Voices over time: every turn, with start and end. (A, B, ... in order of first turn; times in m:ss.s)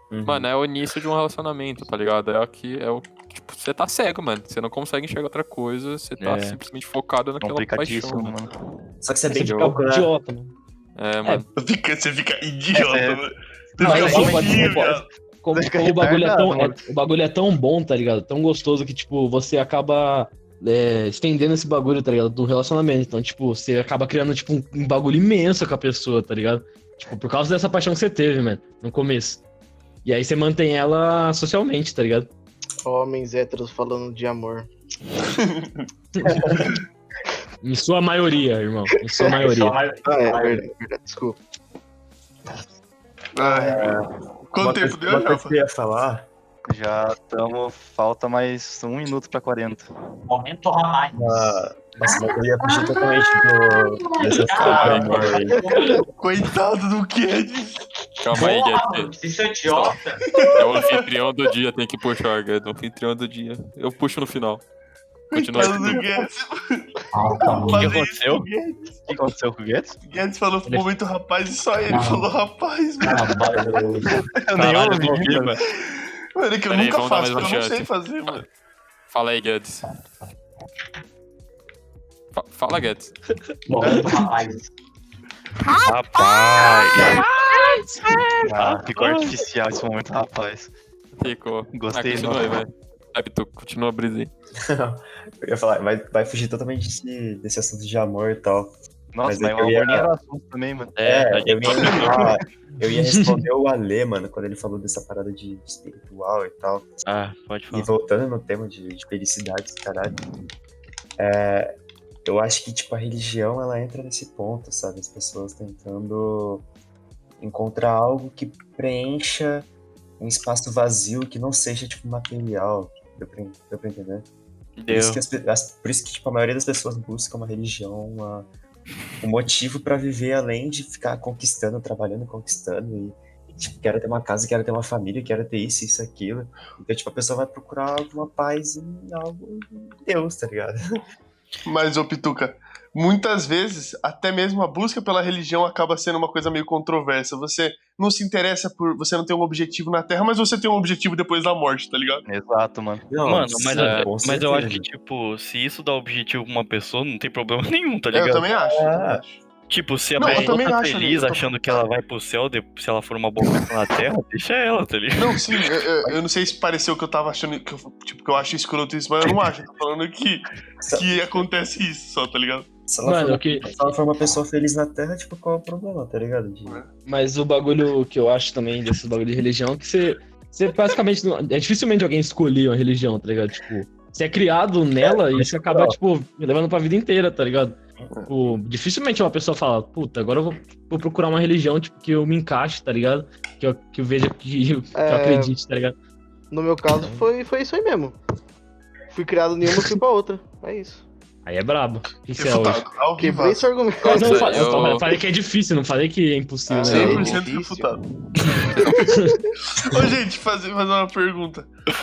0:00.1-0:00.5 A
0:00.2-0:08.3 B
0:06.2-0:06.6 C
0:07.4-0:08.6 D
0:09.0-0:10.1 A
0:09.3-0:10.5 E
0:11.0-0:11.5 B
0:11.6-0:15.1 F
0:12.7-0:13.2 D
0:13.8-0:14.7 D
0:13.8-0:29.4 E
0:15.6-0:16.8 D
0:30.0-0:32.3 E
0:32.8-0:34.7 G
0:35.4-0:35.8 F
0:36.3-0:36.7 G
0:37.6-0:39.8 E
0:39.3-0:40.7 H
0:40.0-0:41.4 G
0:43.3-0:44.0 F
0:43.7-0:46.3 A
0:44.5-0:45.5 F
0:46.7-0:49.9 D
0:50.3-0:56.0 H
0:51.1-0:55.8 A
0:54.6-0:55.3 B
0:54.7-0:54.9 F
0:56.2-0:57.8 F
0:58.2-0:59.1 B
0:58.3-1:00.5 H
0:59.7-1:04.6 B
1:00.3-1:01.0 F
1:05.3-1:06.9 F
1:05.3-1:06.1 B
1:07.1-1:08.0 H
1:07.4-1:08.9 F
1:07.7-1:08.5 C
1:09.1-1:10.0 D
1:10.0-1:13.4 F
1:11.9-1:12.3 H
1:13.0-1:14.2 H
1:14.4-1:15.6 D
1:14.6-1:15.6 C
1:15.1-1:18.4 F
1:16.7-1:18.4 B
1:19.1-1:19.9 B
1:22.3-1:23.2 B
1:23.7-1:24.7 H
1:25.8-1:27.3 C
1:27.0-1:28.2 E
1:28.5-1:30.7 D
1:28.6-1:29.2 C
1:31.2-1:34.3 B
1:31.7-1:32.6 D
1:34.6-1:38.7 A
1:39.1-1:41.0 D
1:39.2-1:40.1 A
1:41.0-1:42.3 C
1:41.0-1:47.0 A
1:43.0-1:43.4 E
1:47.0-1:47.9 C
1:47.7-1:50.2 A
1:51.2-1:51.7 A
1:52.2-1:56.7 A
1:57.4-1:59.7 A
2:00.2-2:04.3 A
2:04.8-2:05.2 C
2:04.9-2:08.5 A
2:09.2-2:20.8 A
2:21.7-2:32.2 F
2:32.2-2:33.1 D
2:33.1-2:34.8 A
2:33.2-2:38.5 C
2:33.8-2:34.1 B
2:38.1-2:39.4 F
2:38.6-2:39.2 A
2:39.7-2:45.7 C
2:40.2-2:41.8 F
2:40.2-2:40.6 E
2:45.2-2:52.7 F
2:50.8-2:51.4 A
2:52.9-2:56.8 A
2:53.0-2:53.6 E
2:57.1-3:07.8 E
3:05.3-3:06.0 A
3:08.3-3:16.0 E
3:15.0-3:15.6 G
3:16.5-3:18.2 G
3:17.0-3:17.2 E
3:19.1-3:21.0 G
3:21.5-3:22.9 E
3:22.4-3:23.8 F
3:23.2-3:24.9 G
3:24.0-3:25.1 B
3:24.0-3:27.3 E
3:26.7-3:28.0 F
3:26.8-3:27.9 G
3:26.9-3:27.4 B
3:29.8-3:31.7 F